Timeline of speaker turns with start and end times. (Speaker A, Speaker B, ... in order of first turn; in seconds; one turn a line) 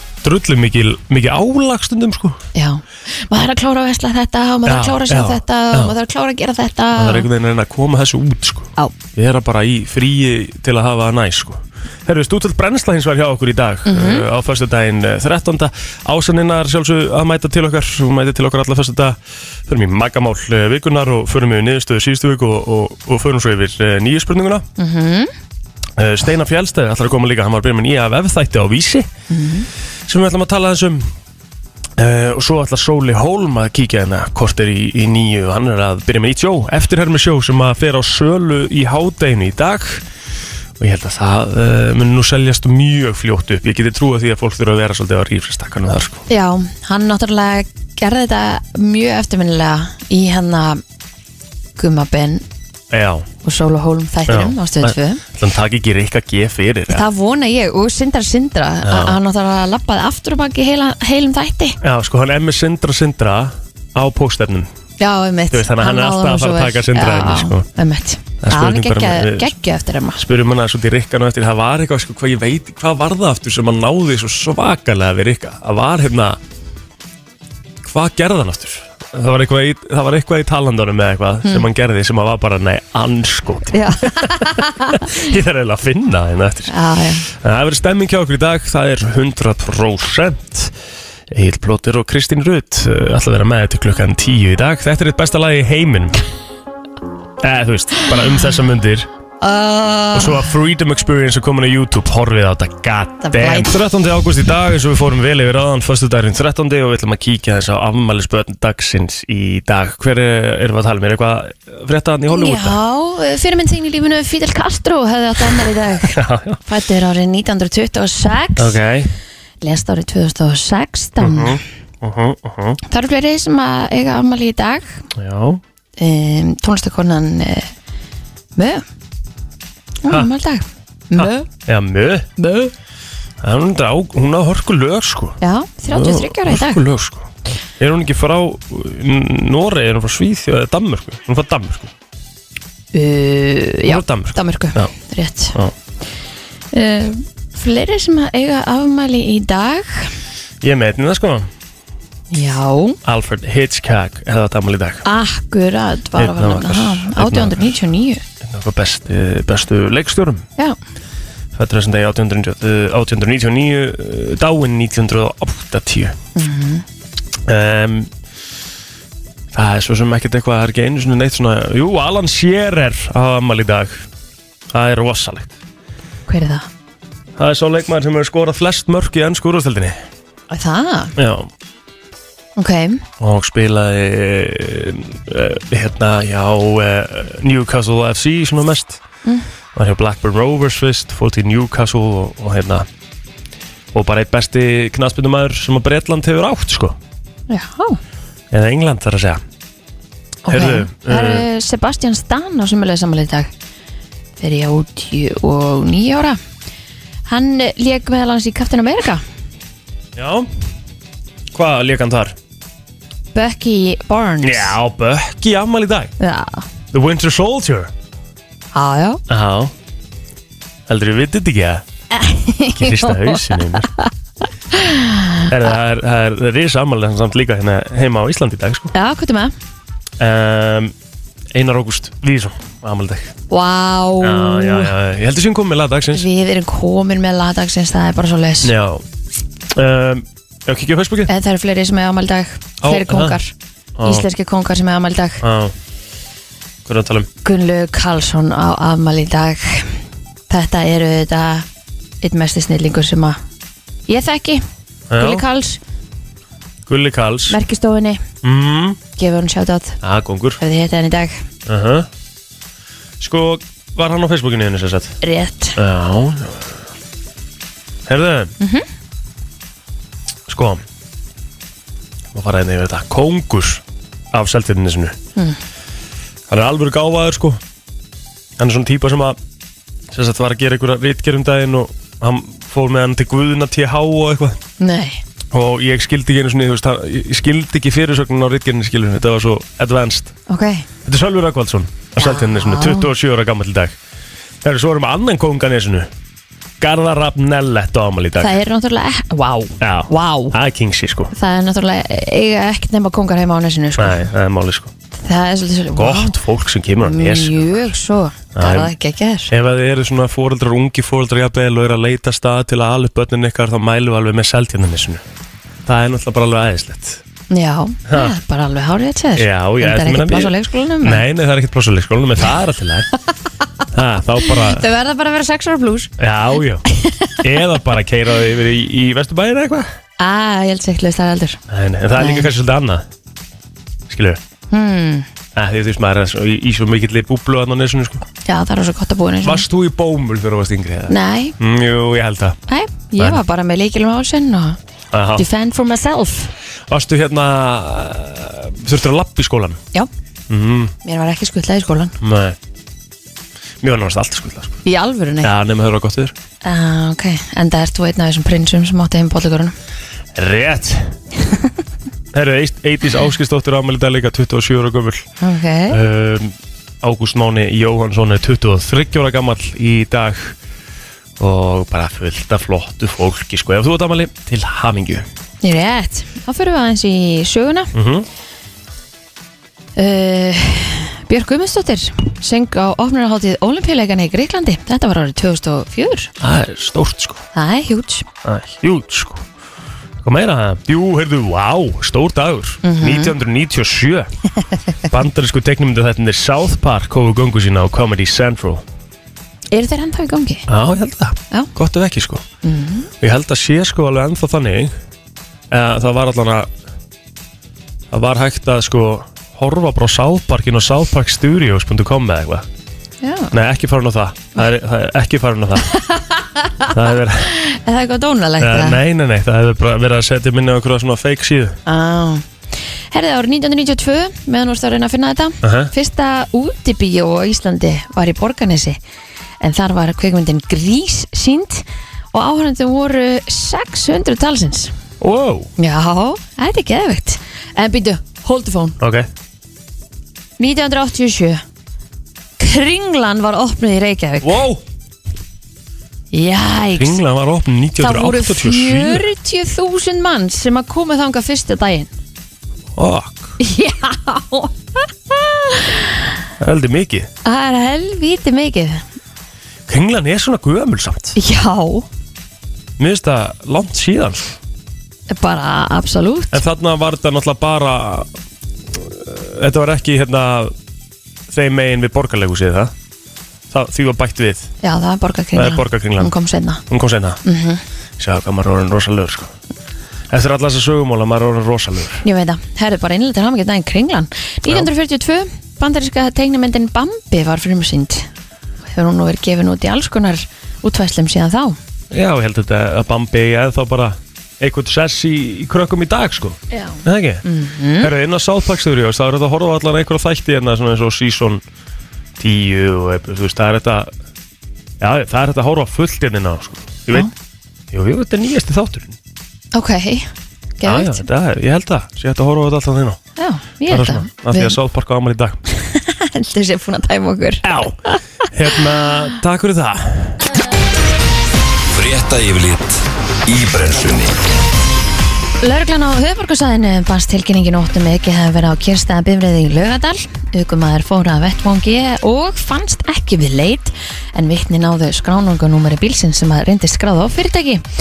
Speaker A: 0.2-2.4
Speaker B: 2.5-7.3
Speaker A: 4.7-5.9
Speaker A: 6.9-24.7
Speaker B: 13.8-14.3
Speaker B: 24.8-25.3
Speaker A: 26.0-29.1
Speaker B: 29.3-29.7
Speaker A: 30.1-31.1
Speaker A: 32.0-40.0
Speaker A: 40.8-46.2
Speaker B: 46.3-50.8
Speaker B: 51.8-52.4
Speaker A: 52.9-53.3
Speaker B: 53.4-55.2
Speaker A: 54.3-57.0
Speaker B: 56.9-61.8
Speaker A: 58.8-59.2
Speaker A: 61.8-64.7
Speaker B: 65.0-70.2
Speaker A: 65.5-67.7
Speaker A: 68.4-69.5
Speaker A: 70.2-76.4
Speaker A: 77.8-86.7
Speaker B: 83.7-85.2
Speaker B: 86.7-87.3
Speaker A: 87.3-90.7
Speaker A: 91.3-96.2
Speaker A: 97.4-99.1
Speaker B: 99.4-100.4
Speaker A: 100.1-112.8
Speaker B: 103.2-103.7
Speaker B: 112.3-118.8
Speaker A: 116.0-116.6
Speaker A: 118.6-119.1
Speaker B: 119.6-121.6
Speaker A: 121.2-122.8
Speaker B: 122.9-125.0
Speaker A: 125.1-125.6
Speaker B: 126.0-127.7
Speaker B: 128.6-128.8
Speaker B: 130.0-131.5
Speaker A: 131.1-132.3
Speaker B: 132.4-132.7
Speaker A: 133.4-135.4
Speaker B: 135.4-136.8
Speaker A: 135.9-141.9
Speaker B: 142.9-145.6
Speaker A: 143.8-144.9
Speaker B: 146.7-150.1
Speaker A: 150.6-151.5
Speaker B: 152.3-153.0
Speaker A: 153.0-155.0
Speaker B: 155.0-158.2
Speaker A: 156.2-157.7
Speaker A: 158.4-160.4
Speaker A: 161.5-166.2
Speaker B: 166.3-166.8
Speaker A: 167.4-168.1
Speaker A: 169.5-174.0
Speaker A: 174.7-175.5
Speaker B: 176.3-176.7
Speaker A: 177.4-180.0
Speaker B: 180.5-181.1
Speaker A: 181.2-181.5
Speaker B: 182.6-183.0
Speaker A: 183.2-189.0
Speaker A: 189.7-192.9
Speaker A: 193.9-197.0
Speaker B: 197.5-198.0
Speaker A: 198.5-199.4
Speaker B: 200.4-203.5
Speaker A: 200.5-201.5
Speaker B: 204.4-206.4
Speaker B: 207.3-209.2
Speaker A: 210.2-210.5
Speaker A: 211.5-212.3
Speaker B: 213.3-214.8
Speaker A: 214.4-216.1
Speaker B: 216.2-216.7
Speaker A: 216.9-217.9
Speaker B: 218.7-219.2
Speaker A: 219.3-219.7
Speaker A: 220.9-221.8
Speaker B: 222.1-224.1
Speaker A: 222.8-223.9
Speaker B: 224.7-225.5
Speaker A: 225.5-228.9
Speaker B: 228.9-229.5
Speaker A: 230.2-230.9
Speaker A: 231.5-233.3
Speaker B: 233.5-234.9
Speaker A: 234.2-236.2
Speaker B: 236.1-238.7
Speaker A: 238.6-239.0
Speaker A: 239.7-241.3
Speaker B: 241.3-243.5
Speaker A: 242.8-243.4
Speaker A: 244.0-244.2
Speaker B: 244.0-245.4
Speaker A: 245.4-245.7
Speaker A: 246.8-247.3
Speaker B: 247.4-249.9
Speaker B: 250.5-251.7
Speaker B: 252.2-253.4
Speaker B: 254.1-254.6
Speaker A: 255.1-255.4
Speaker B: 255.2-255.8
Speaker A: 256.9-257.6
Speaker B: 257.5-258.2
Speaker A: 258.4-259.0
Speaker B: 259.2-260.0
Speaker A: 260.0-260.6
Speaker B: 260.6-261.4
Speaker A: 261.7-262.1
Speaker A: 263.2-265.2
Speaker B: 265.2-265.8
Speaker A: 265.8-266.7
Speaker A: 268.1-268.5
Speaker B: 268.6-268.8
Speaker A: 270.5-270.8
Speaker A: 272.3-275.2
Speaker A: 276.5-277.6
Speaker A: 278.6-279.4
Speaker A: 280.1-284.6
Speaker B: 284.8-285.2
Speaker A: 285.5-290.3
Speaker B: 290.5-290.9
Speaker A: 291.0-293.9
Speaker B: 292.2-293.1
Speaker A: 294.6-296.1
Speaker A: 296.8-298.6
Speaker B: 298.4-300.5
Speaker A: 299.8-301.3
Speaker B: 301.3-304.2
Speaker A: 304.0-304.9
Speaker B: 305.1-306.3
Speaker A: 305.9-307.9
Speaker B: 307.0-309.5
Speaker A: 308.5-308.9
Speaker A: 309.5-315.2
Speaker A: 315.8-317.2
Speaker B: 317.5-321.2
Speaker A: 318.1-318.3
Speaker A: 319.4-323.1
Speaker A: 323.9-324.8
Speaker B: 324.4-326.1
Speaker A: 326.2-326.8
Speaker B: 326.9-327.4
Speaker A: 327.4-329.9
Speaker B: 330.2-331.6
Speaker A: 331.7-333.1
Speaker B: 332.1-332.5
Speaker A: 334.1-334.4
Speaker B: 334.7-335.3
Speaker A: 335.5-338.2
Speaker B: 338.4-339.6
Speaker A: 339.4-342.6
Speaker B: 341.1-341.6
Speaker B: 342.7-344.8
Speaker A: 345.1-345.4
Speaker B: 345.4-346.5
Speaker A: 346.9-349.8
Speaker A: 350.5-350.9
Speaker B: 351.0-352.1
Speaker A: 352.2-352.6
Speaker A: 353.8-354.8
Speaker B: 354.8-355.5
Speaker A: 355.4-356.3
Speaker B: 356.6-359.7
Speaker A: 360.3-361.1
Speaker A: 362.3-365.2
Speaker B: 365.4-366.0
Speaker A: 365.9-370.5
Speaker A: 371.4-375.2
Speaker B: 375.6-377.9
Speaker A: 377.9-378.2
Speaker B: 379.9-386.3
Speaker A: 386.4-387.4
Speaker B: 387.5-388.2
Speaker A: 388.4-389.4
Speaker A: 390.2-394.3
Speaker B: 392.8-393.3
Speaker A: 395.1-398.8
Speaker B: 399.7-400.6
Speaker A: 400.7-402.4
Speaker B: 402.6-403.1
Speaker A: 403.2-404.9
Speaker A: 405.7-406.7
Speaker A: 408.1-412.7
Speaker B: 413.2-413.5
Speaker A: 413.5-415.9
Speaker B: 415.8-419.0
Speaker A: 416.9-417.5
Speaker A: 418.6-421.8
Speaker B: 421.9-422.4
Speaker B: 423.1-429.0
Speaker A: 425.6-425.9
Speaker B: 429.6-434.9
Speaker A: 435.2-435.7
Speaker B: 435.8-439.0
Speaker A: 439.0-439.3
Speaker B: 440.6-441.6
Speaker B: 442.6-444.6
Speaker A: 444.4-444.8
Speaker B: 446.3-447.2
Speaker A: 446.9-449.2
Speaker B: 448.0-452.1
Speaker A: 452.9-453.6
Speaker B: 453.6-456.2
Speaker A: 456.6-457.3
Speaker B: 457.4-459.0
Speaker A: 459.9-461.4
Speaker B: 461.4-462.1
Speaker A: 463.0-464.6
Speaker B: 465.3-466.6
Speaker A: 466.5-468.3
Speaker A: 468.9-470.7
Speaker A: 471.5-472.9
Speaker A: 473.7-474.7
Speaker B: 474.8-476.8
Speaker A: 475.5-476.3
Speaker A: 476.9-477.4
Speaker B: 477.4-477.8
Speaker A: 478.2-479.5
Speaker A: 480.3-482.2
Speaker B: 482.2-488.3
Speaker B: 488.9-491.8
Speaker A: 492.1-497.4
Speaker B: 496.7-498.1
Speaker A: 498.0-501.6
Speaker A: 502.4-504.1
Speaker A: 505.0-507.3
Speaker A: 507.9-509.1
Speaker B: 509.7-510.3
Speaker B: 510.8-511.2
Speaker A: 510.8-513.2
Speaker B: 513.4-514.8
Speaker A: 513.9-515.6
Speaker B: 515.7-518.2
Speaker A: 517.6-518.0
Speaker A: 518.5-520.4
Speaker C: 521.9-524.4
Speaker B: 525.6-537.8